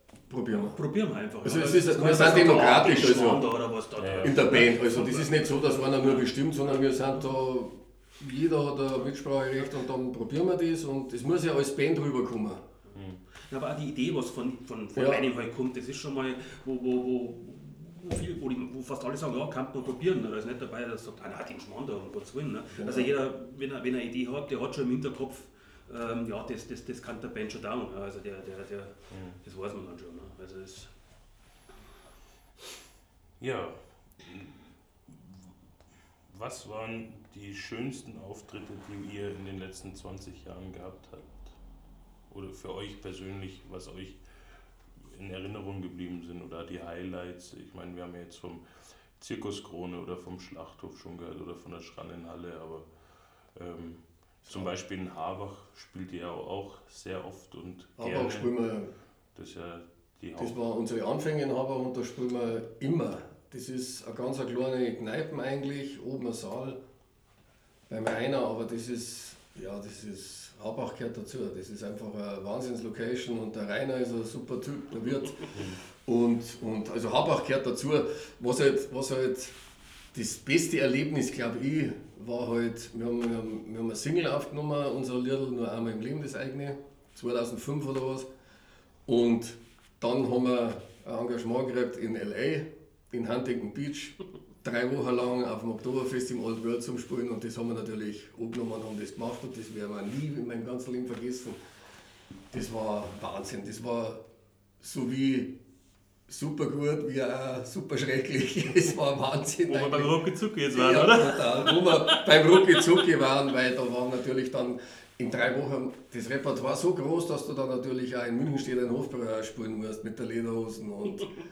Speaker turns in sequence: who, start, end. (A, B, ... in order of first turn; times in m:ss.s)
0:00.3-0:00.8 A
0:00.6-0:07.4 B
0:01.4-0:03.5 A
0:04.0-0:04.4 C
0:04.2-0:12.6 A
0:12.9-0:13.2 C
0:13.4-0:30.9 B
0:15.0-0:15.2 A
0:22.8-0:23.1 A
0:29.1-0:29.4 C
0:33.4-0:35.5 C
0:36.3-0:41.5 C
0:42.3-0:44.2 C
0:45.1-0:48.6 C
0:49.2-0:52.9 C
0:53.6-0:58.5 C
0:58.0-0:58.9 A
0:59.4-1:00.6 C
1:00.4-1:06.8 A
1:07.9-1:19.6 A
1:20.1-1:28.3 A
1:29.1-1:41.6 A
1:42.5-1:44.2 A
1:44.8-1:45.6 A
1:46.3-1:50.1 A
1:49.7-1:52.9 B
1:50.7-2:01.3 A